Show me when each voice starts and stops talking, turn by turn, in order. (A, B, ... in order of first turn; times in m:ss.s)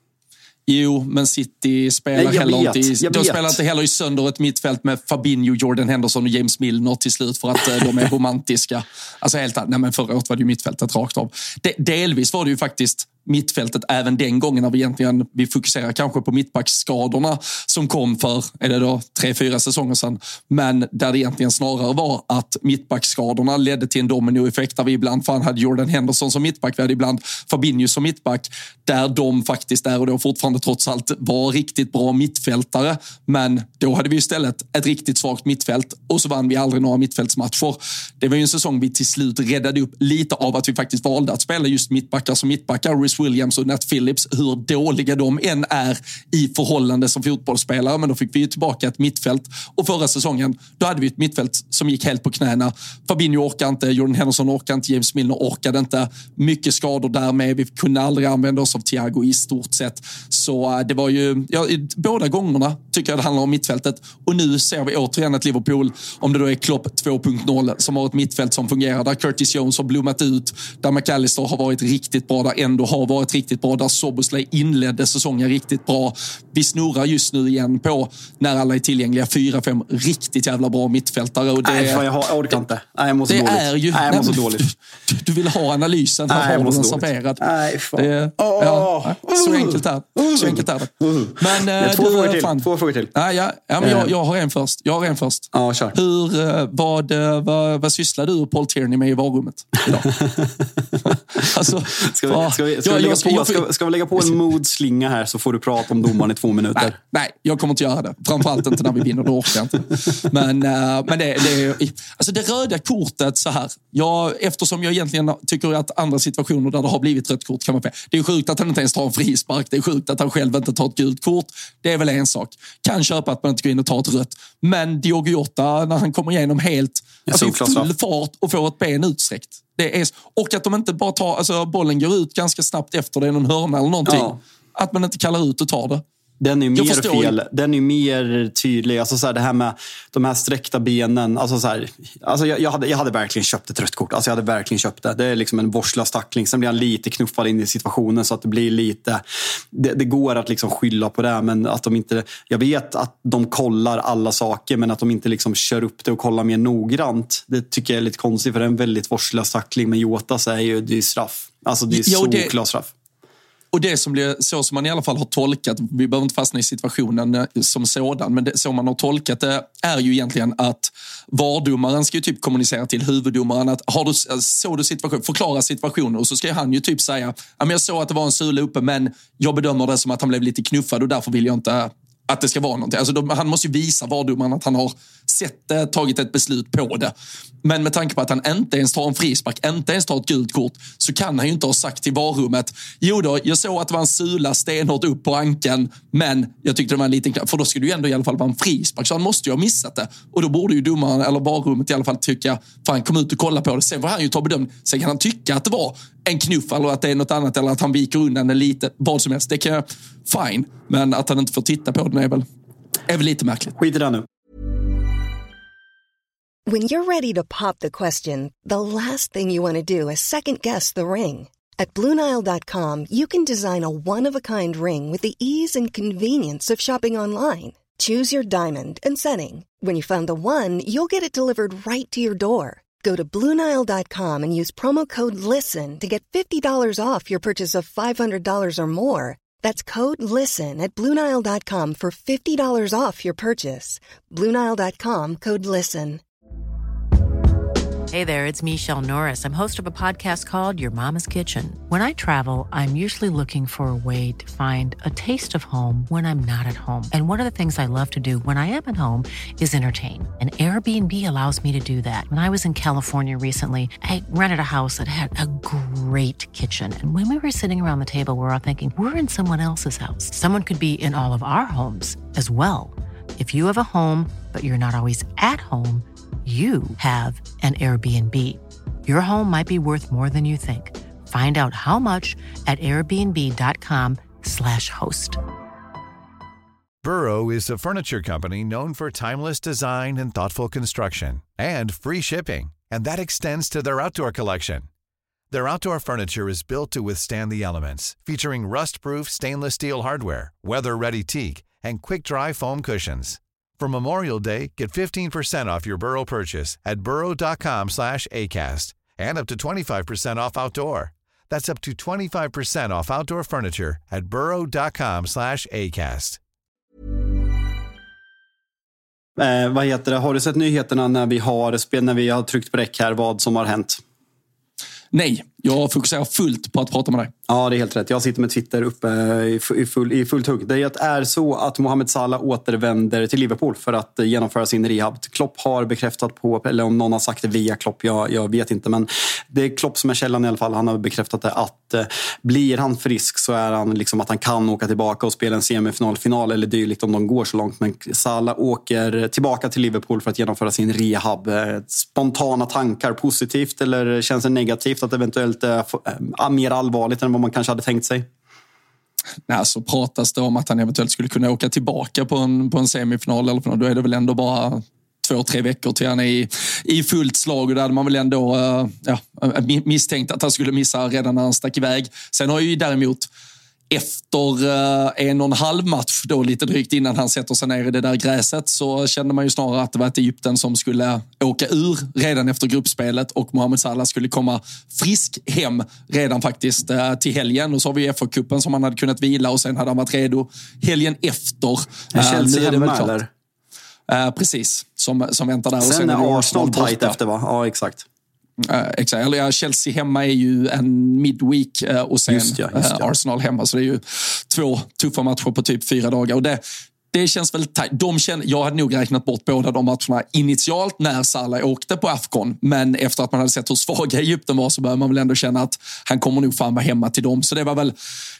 0:00.7-1:22.0 A
0:02.1-0:03.6 B
1:21.6-1:24.7 B
1:23.3-1:40.1 A
1:26.3-1:33.1 B
1:33.8-1:34.1 B
1:35.5-1:36.0 B
1:40.0-1:41.1 B
1:41.1-1:43.7 A
1:42.0-1:47.0 B
1:46.7-2:16.0 A
2:07.3-2:07.9 B
2:14.0-2:14.4 B
2:16.4-2:42.9 B
2:16.7-2:17.4 A
2:41.9-2:42.5 A
2:43.7-3:07.1 A
3:07.6-3:32.4 A
3:33.1-3:33.8 A
3:33.8-3:34.2 B
3:36.7-4:06.2 C
4:08.1-4:45.4 D
4:47.0-4:54.9 E
4:55.5-5:16.4 E
5:19.4-5:24.0 B
5:25.1-5:27.3 A
5:27.5-5:58.3 B
5:59.5-6:13.3 A
6:13.9-6:33.2 A
6:32.1-6:33.3 B
6:34.1-6:37.2 A
6:35.8-6:38.0 B
6:38.6-6:46.6 A
6:42.3-6:43.1 B
6:47.1-6:57.9 A